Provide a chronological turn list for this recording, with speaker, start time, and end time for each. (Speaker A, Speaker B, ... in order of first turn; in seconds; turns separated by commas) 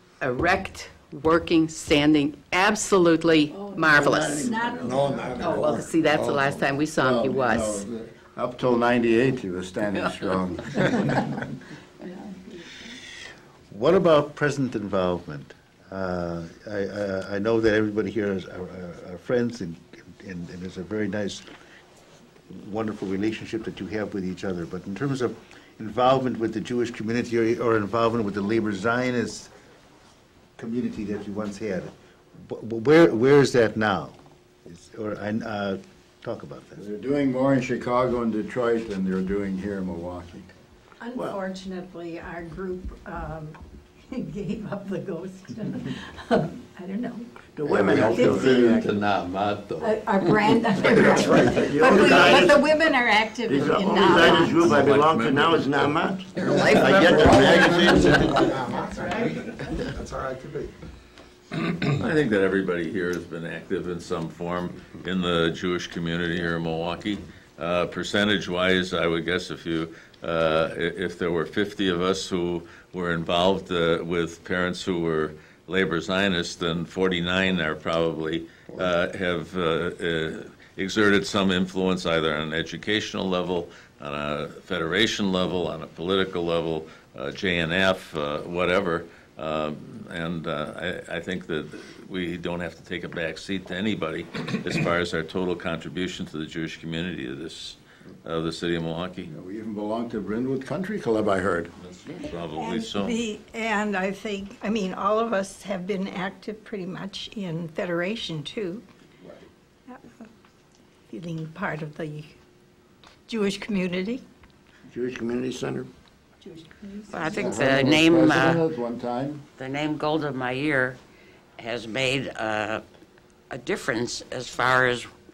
Speaker A: 0.2-4.6, Speaker B: 3.5-3.9, Speaker C: 3.8-5.2, Speaker B: 4.4-5.5, Speaker D: 4.8-6.6, Speaker A: 5.4-7.8, Speaker E: 7.0-11.4, Speaker F: 9.9-10.3, Speaker G: 13.7-21.5, Speaker G: 22.5-29.5, Speaker G: 30.6-36.8, Speaker E: 36.8-40.5, Speaker B: 41.0-48.8, Speaker C: 47.6-48.9, Speaker F: 47.7-50.6, Speaker E: 47.7-48.8, Speaker B: 49.8-54.8, Speaker D: 50.8-51.8, Speaker C: 51.4-52.7, Speaker C: 53.4-58.6, Speaker H: 54.1-55.9, Speaker D: 56.3-60.7, Speaker E: 57.4-58.4, Speaker D: 61.6-62.0, Speaker H: 62.0-99.3, Speaker E: 99.3-101.7, Speaker H: 101.8-103.2, Speaker B: 102.2-108.8, Speaker B: 109.9-110.3, Speaker B: 111.1-112.3, Speaker B: 113.3-114.2, Speaker C: 114.9-115.9, Speaker B: 116.4-117.7, Speaker I: 117.1-118.6, Speaker E: 117.3-119.4, Speaker I: 119.6-121.0, Speaker I: 121.6-122.8, Speaker I: 123.5-125.1